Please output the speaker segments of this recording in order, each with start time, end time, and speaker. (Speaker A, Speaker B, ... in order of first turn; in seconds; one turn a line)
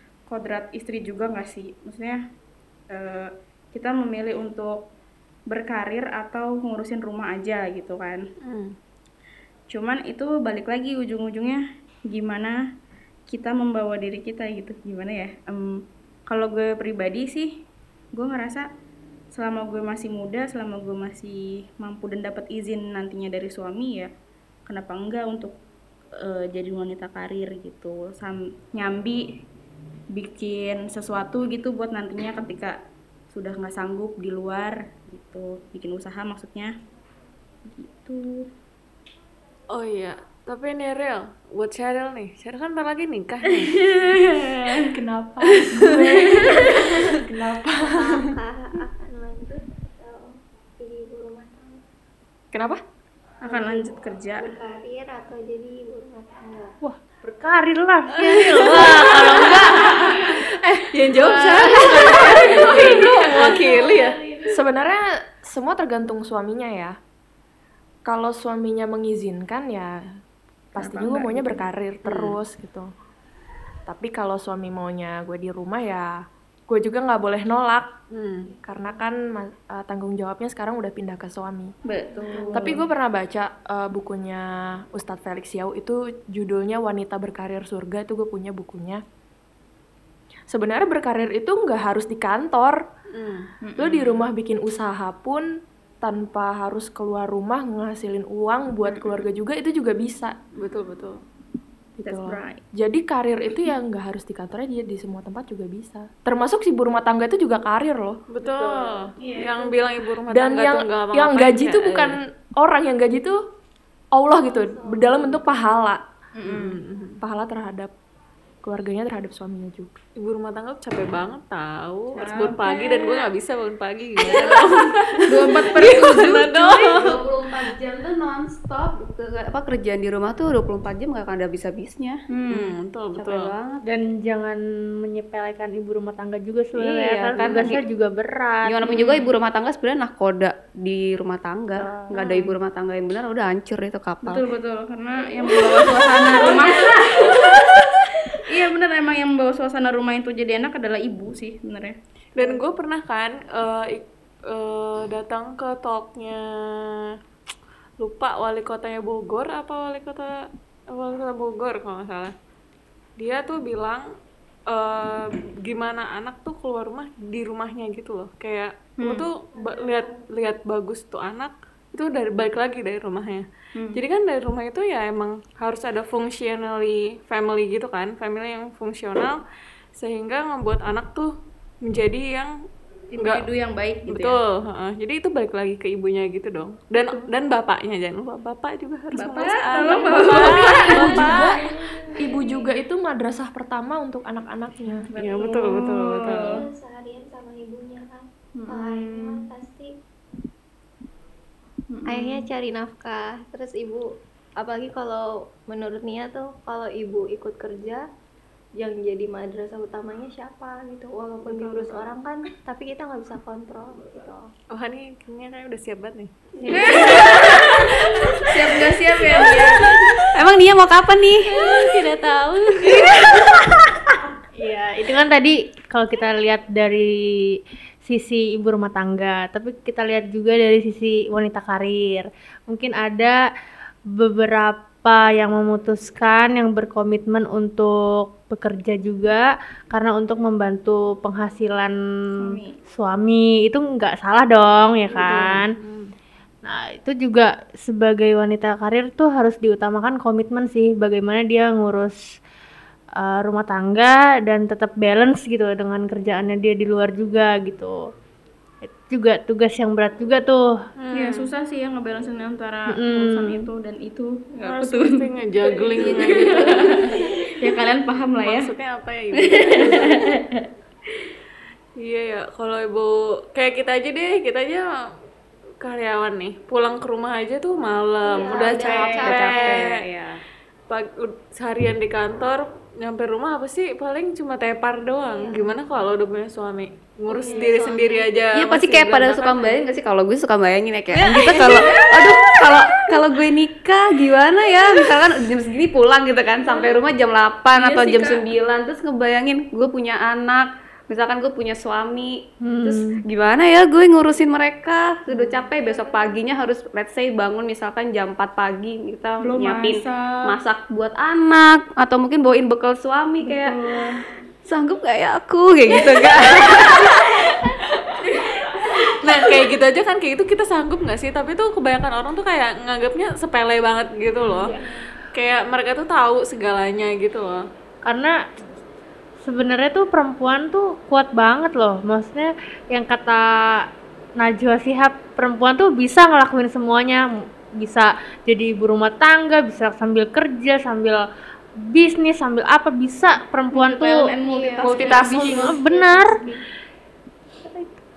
Speaker A: 0.3-2.2
Speaker A: 2.9-4.8
Speaker A: 5.5-8.2
Speaker B: 8.4-8.7
Speaker A: 9.7-12.6
Speaker A: 13.3-15.8
Speaker A: 16.3-17.5
Speaker A: 18.1-18.7
Speaker A: 19.3-24.1
Speaker A: 24.7-25.5
Speaker A: 26.2-29.2
Speaker A: 30.1-32.8
Speaker A: 33.3-36.7
Speaker A: 37.6-38.5
Speaker B: 39.7-44.2
Speaker A: 43.6-44.9
Speaker C: 44.9-48.3
Speaker A: 46.3-46.7
Speaker D: 47.8-51.8
Speaker C: 52.5-52.8
Speaker A: 53.4-54.5
Speaker D: 54.3-56.8
Speaker E: 56.8-60.4
Speaker B: 58.1-64.2
Speaker E: 61.1-62.5
Speaker A: 62.6-63.5
Speaker D: 63.5-64.5
Speaker C: 64.5-67.0
Speaker C: 68.0-70.0
Speaker C: 70.7-72.9
Speaker A: 70.8-71.7
Speaker B: 72.0-72.4
Speaker C: 73.9-77.9
Speaker B: 78.1-78.5
Speaker C: 78.6-81.7
Speaker A: 81.8-82.8
Speaker D: 82.1-82.7
Speaker C: 82.5-89.0
Speaker C: 90.5-92.8
Speaker B: 93.1-93.5
Speaker A: 93.6-94.1
Speaker C: 93.8-95.5
Speaker C: 96.0-100.3
Speaker B: 100.5-101.2
Speaker C: 102.0-108.2
Speaker A: 102.0-102.6
Speaker B: 108.3-112.1
Speaker A: 109.2-109.5
Speaker C: 110.3-113.4
Speaker C: 114.1-116.0
Speaker D: 114.4-115.5
Speaker A: 116.4-116.8
Speaker B: 116.5-117.2
Speaker C: 117.2-117.9
Speaker C: 118.6-120.0
Speaker B: 120.2-127.2
Speaker A: 122.1-123.3
Speaker F: 124.2-124.8
Speaker A: 125.3-126.9
Speaker F: 126.8-132.2
Speaker A: 132.3-132.7
Speaker B: 132.5-133.5
Speaker F: 133.2-133.8
Speaker E: 133.8-139.1
Speaker F: 136.7-137.8
Speaker F: 138.7-144.4
Speaker E: 141.8-142.4
Speaker A: 144.2-147.6
Speaker A: 148.3-152.5
Speaker B: 152.3-157.1
Speaker B: 158.0-162.3
Speaker B: 163.2-164.1
Speaker B: 164.7-179.4
Speaker A: 169.0-169.2
Speaker D: 169.5-170.2
Speaker B: 180.0-182.5
Speaker A: 183.1-184.4
Speaker B: 183.2-183.4
Speaker B: 184.1-191.5
Speaker A: 187.0-187.2
Speaker A: 189.1-191.6
Speaker C: 190.1-191.7
Speaker D: 191.8-192.7
Speaker C: 192.2-195.1
Speaker A: 195.1-196.6
Speaker B: 195.1-196.6
Speaker D: 196.3-199.9
Speaker A: 198.6-199.5
Speaker A: 201.9-202.5
Speaker D: 202.1-208.0
Speaker D: 208.8-214.5
Speaker B: 211.5-212.0
Speaker B: 214.7-220.3
Speaker D: 216.6-217.6
Speaker A: 216.7-220.1
Speaker F: 220.3-221.5
Speaker B: 221.7-223.3
Speaker E: 224.5-233.4
Speaker E: 234.1-245.7
Speaker A: 242.4-242.8
Speaker B: 245.1-246.1
Speaker E: 246.6-252.2
Speaker E: 253.2-257.9
Speaker E: 258.8-260.6
Speaker B: 261.0-261.5
Speaker A: 261.1-265.2
Speaker E: 262.9-263.7
Speaker B: 264.6-267.2
Speaker D: 265.9-266.4
Speaker A: 265.9-268.7
Speaker B: 268.4-270.2
Speaker A: 269.4-270.5
Speaker B: 272.0-274.9
Speaker B: 275.8-279.9
Speaker D: 278.2-279.8
Speaker F: 278.5-280.4
Speaker A: 278.8-279.4
Speaker B: 280.9-289.8
Speaker D: 285.2-285.8
Speaker D: 287.3-288.3
Speaker F: 288.5-313.7
Speaker B: 291.1-292.8
Speaker A: 291.6-292.2
Speaker A: 296.7-296.9
Speaker A: 297.7-298.4
Speaker E: 302.6-303.2
Speaker D: 305.5-306.4
Speaker A: 309.4-310.5
Speaker A: 313.4-314.2
Speaker F: 314.6-317.5
Speaker B: 317.6-318.2
Speaker A: 318.2-318.9
Speaker B: 318.8-324.8
Speaker D: 324.7-325.0
Speaker B: 325.3-327.6
Speaker E: 328.0-328.4
Speaker E: 329.4-341.2
Speaker E: 341.8-344.3
Speaker A: 343.7-345.8
Speaker D: 344.5-345.0
Speaker F: 344.8-345.2
Speaker B: 344.8-345.7
Speaker E: 345.0-346.5
Speaker D: 345.9-346.2